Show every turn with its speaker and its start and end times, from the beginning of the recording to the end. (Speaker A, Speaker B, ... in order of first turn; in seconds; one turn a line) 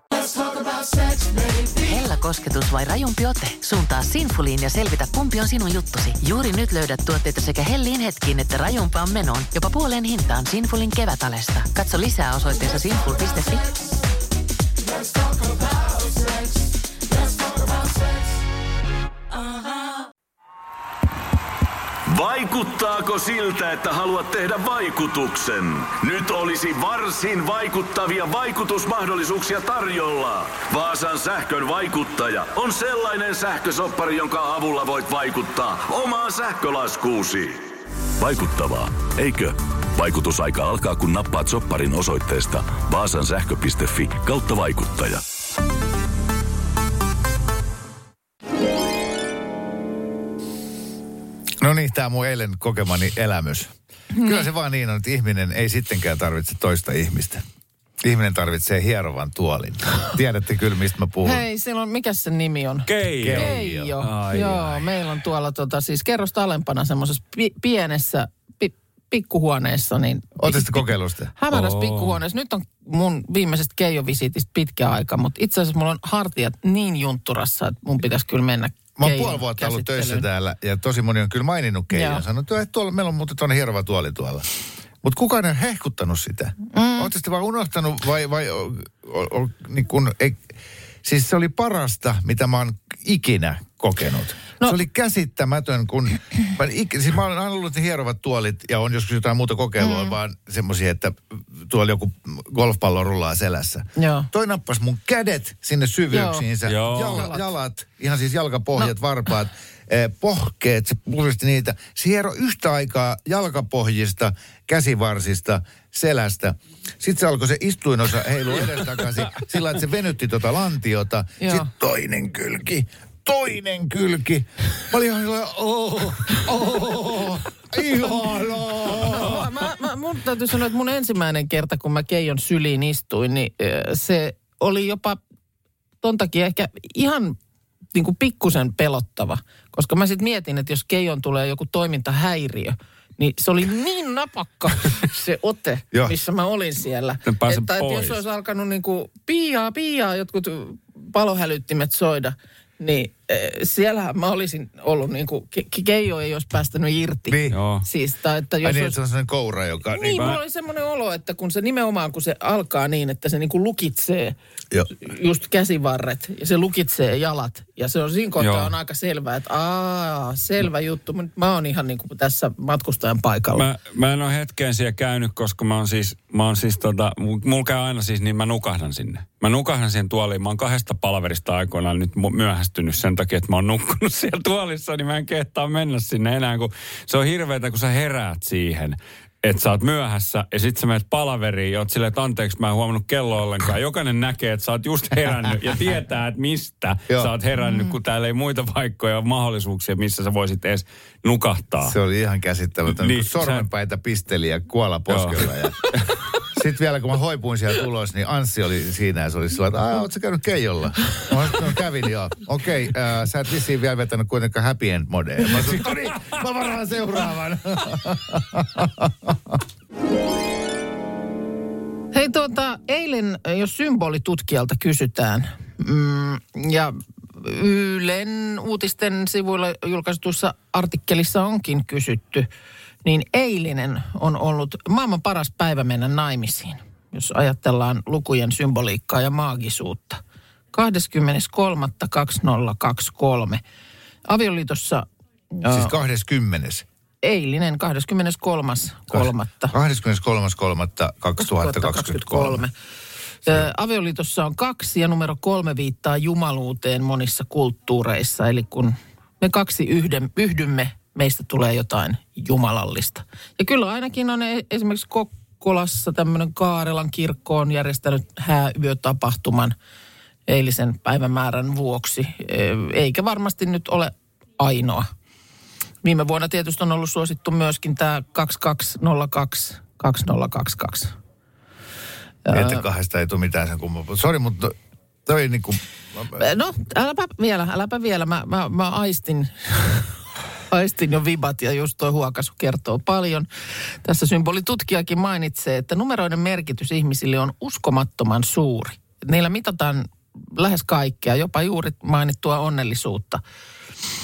Speaker A: 1.7-13.8
Speaker B: 22.1-45.2
Speaker C: 51.6-57.4
Speaker D: 54.1-54.5
Speaker C: 58.0-61.4
Speaker D: 61.2-80.2
Speaker E: 62.9-64.8
Speaker C: 63.2-63.9
Speaker C: 70.4-71.3
Speaker E: 71.5-72.2
Speaker C: 79.0-84.5
Speaker D: 81.9-82.2
Speaker C: 85.0-129.5
Speaker D: 86.7-87.1
Speaker D: 99.8-100.2
Speaker D: 104.0-104.3
Speaker D: 106.1-106.5
Speaker E: 106.6-107.3
Speaker D: 121.4-121.7
Speaker D: 128.9-135.2
Speaker D: 136.0-137.3
Speaker D: 137.9-159.0
Speaker E: 147.2-148.2
Speaker C: 157.3-157.6
Speaker E: 157.5-157.8
Speaker C: 158.6-160.4
Speaker D: 159.9-164.3
Speaker D: 164.9-173.6
Speaker E: 168.4-168.7
Speaker E: 173.5-201.9
Speaker D: 197.6-197.9
Speaker C: 201.8-205.9
Speaker E: 202.9-203.7
Speaker E: 205.1-206.1
Speaker C: 206.4-219.6
Speaker D: 222.1-232.5
Speaker D: 233.0-240.2
Speaker D: 240.7-243.6
Speaker D: 244.3-245.9
Speaker C: 245.7-246.8
Speaker D: 247.2-249.7
Speaker C: 249.1-252.6
Speaker D: 251.4-252.7
Speaker D: 253.4-269.7
Speaker D: 270.5-275.1
Speaker D: 276.0-281.1
Speaker D: 282.4-282.8
Speaker C: 282.5-286.4
Speaker D: 286.3-290.1
Speaker D: 290.7-293.5
Speaker D: 294.0-303.4